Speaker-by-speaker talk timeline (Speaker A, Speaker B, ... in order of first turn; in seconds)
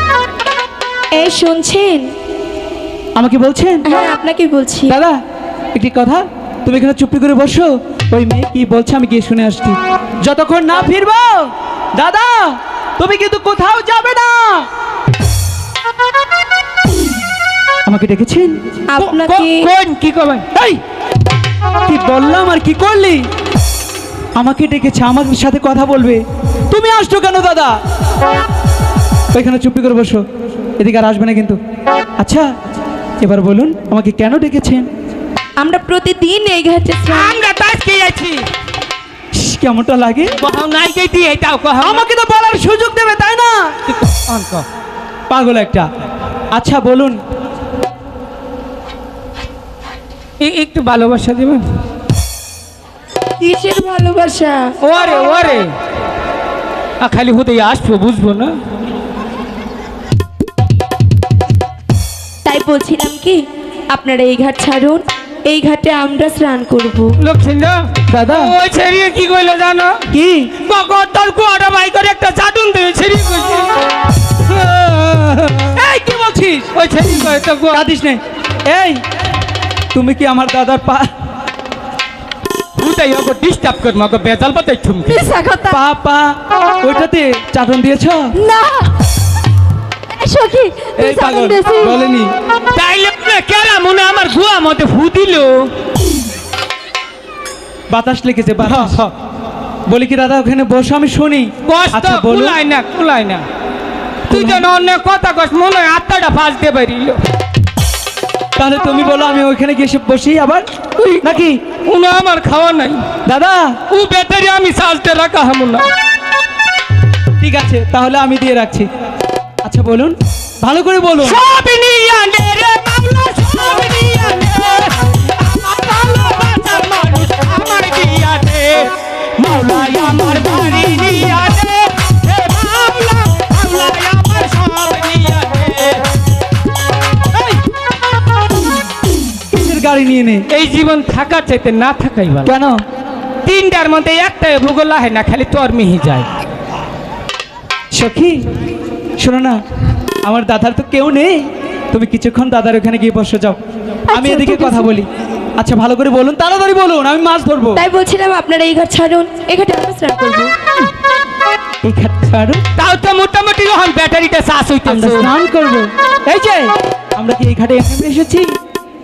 Speaker A: 1.1-2.1, 3.8-4.9, 18.9-19.7, 35.6-37.4, 53.4-54.7, 62.4-67.2, 157.7-160.5
Speaker B: 3.1-3.9, 4.9-5.2, 5.7-14.7, 17.9-18.6, 20.5-20.8, 21.9-23.2, 24.4-27.7, 29.3-30.2, 30.8-31.6, 32.2-32.5, 33.2-34.9, 39.3-40.4, 41.8-43.7, 45.3-45.9, 46.5-47.2, 68.1-68.5, 70.1-70.5, 75.7-76.7, 77.7-79.0, 79.9-81.1, 85.7-88.3, 91.0-92.3, 97.9-99.0, 99.9-102.6, 104.3-104.7, 108.5-110.6, 111.2-111.6, 113.2-113.8, 117.4-118.9, 119.6-121.4, 139.5-140.4, 142.4-142.8, 147.9-148.4, 149.2-149.6, 150.2-153.6, 154.1-155.1, 155.6-157.8, 161.8-162.6, 164.8-168.5
Speaker C: 19.0-20.4, 37.1-38.5, 40.4-42.1, 43.9-44.6, 50.4-51.6, 54.8-55.7, 57.0-58.5, 67.2-73.7, 74.4-75.8, 76.8-77.8, 82.8-85.3, 92.7-95.7, 98.6-99.1, 101.7-103.4, 104.3-107.2, 111.0-113.0, 113.9-115.9, 121.2-136.0, 137.3-137.6, 140.5-142.5, 143.4-146.3, 162.8-165.3
Speaker D: 85.1-85.8, 88.4-88.9, 90.1-92.0, 154.1-154.9